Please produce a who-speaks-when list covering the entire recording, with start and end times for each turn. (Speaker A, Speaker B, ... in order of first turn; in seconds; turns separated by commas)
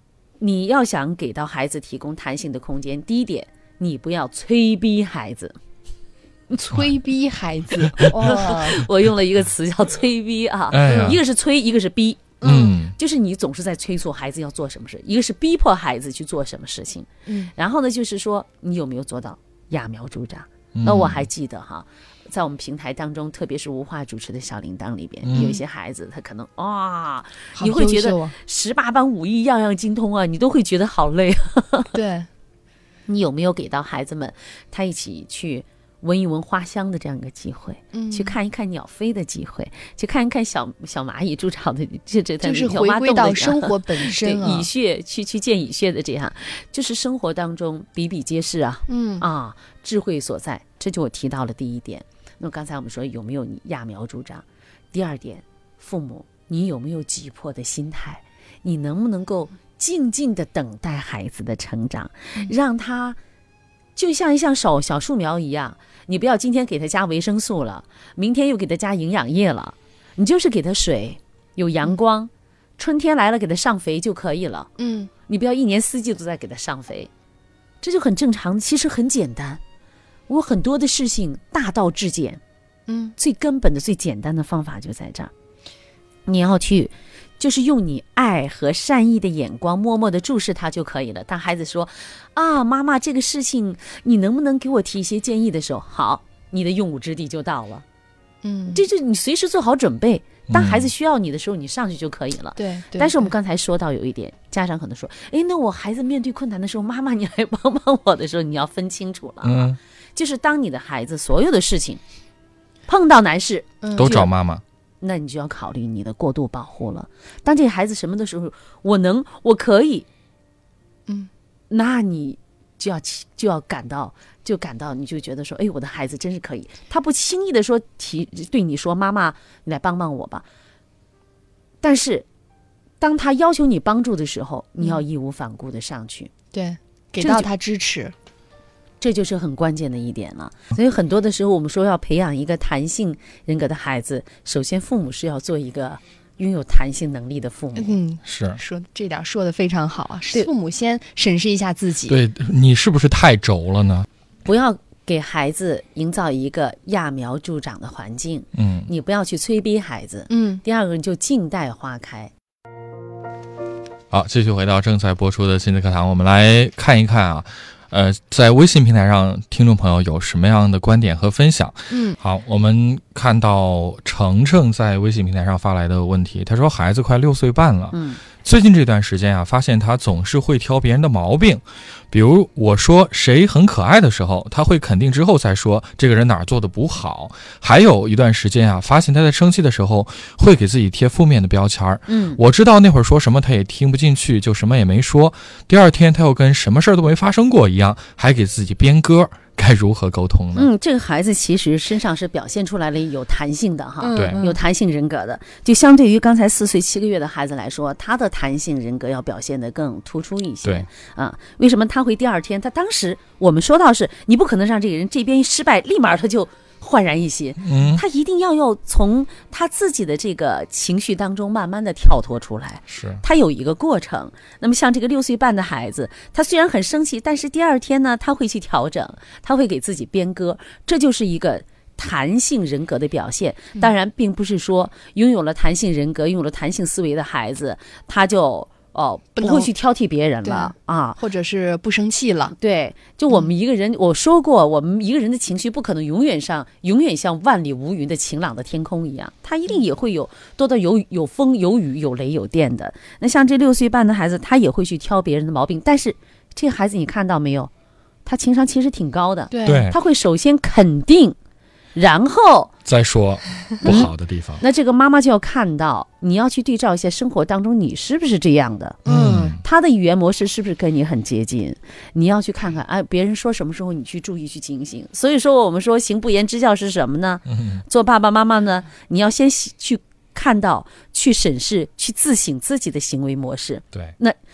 Speaker A: 0.4-5.6, Speaker B: 6.5-8.8, Speaker C: 7.9-8.3, Speaker A: 8.1-31.9, Speaker C: 10.7-11.2, Speaker B: 10.9-11.1, Speaker C: 12.4-12.9, Speaker B: 12.4-12.7, Speaker B: 17.3-17.5, Speaker C: 20.7-21.3, Speaker C: 25.2-25.5, Speaker B: 25.3-25.6, Speaker B: 27.6-28.4, Speaker B: 31.9-32.3, Speaker A: 33.1-63.2, Speaker B: 37.9-38.4, Speaker B: 42.4-44.7, Speaker B: 48.9-49.3, Speaker A: 64.0-74.7, Speaker B: 74.8-75.1, Speaker A: 75.3-77.1, Speaker A: 77.8-79.6, Speaker A: 80.3-82.4, Speaker B: 82.9-83.1, Speaker A: 83.2-85.3, Speaker A: 86.3-97.8, Speaker B: 98.4-98.8, Speaker A: 98.7-112.0, Speaker C: 100.5-100.9, Speaker B: 102.6-103.3, Speaker C: 109.4-109.8, Speaker A: 112.9-114.3, Speaker B: 113.8-114.3, Speaker C: 113.9-114.6, Speaker A: 115.0-120.1, Speaker A: 121.7-130.4, Speaker A: 131.8-132.3, Speaker A: 133.0-136.3, Speaker B: 136.5-138.1, Speaker A: 137.2-137.5, Speaker A: 139.0-148.0, Speaker B: 147.8-152.2, Speaker C: 148.2-148.6, Speaker C: 152.1-154.1, Speaker A: 154.4-162.3, Speaker C: 158.6-158.9, Speaker B: 160.3-160.6, Speaker C: 164.1-200.7, Speaker B: 171.9-172.2, Speaker A: 177.9-178.2, Speaker A: 192.1-192.4, Speaker A: 200.6-241.2, Speaker B: 204.0-204.6, Speaker C: 204.1-204.4, Speaker C: 217.6-218.0, Speaker C: 222.9-223.2, Speaker B: 239.4-239.7, Speaker B: 240.4-242.6, Speaker A: 242.6-257.7, Speaker A: 258.2-261.4, Speaker B: 259.5-259.9, Speaker C: 259.6-259.9, Speaker A: 261.9-262.7, Speaker C: 262.9-264.6, Speaker A: 263.8-269.0, Speaker C: 269.1-269.6, Speaker B: 269.1-269.6, Speaker A: 269.6-284.4, Speaker C: 277.5-277.8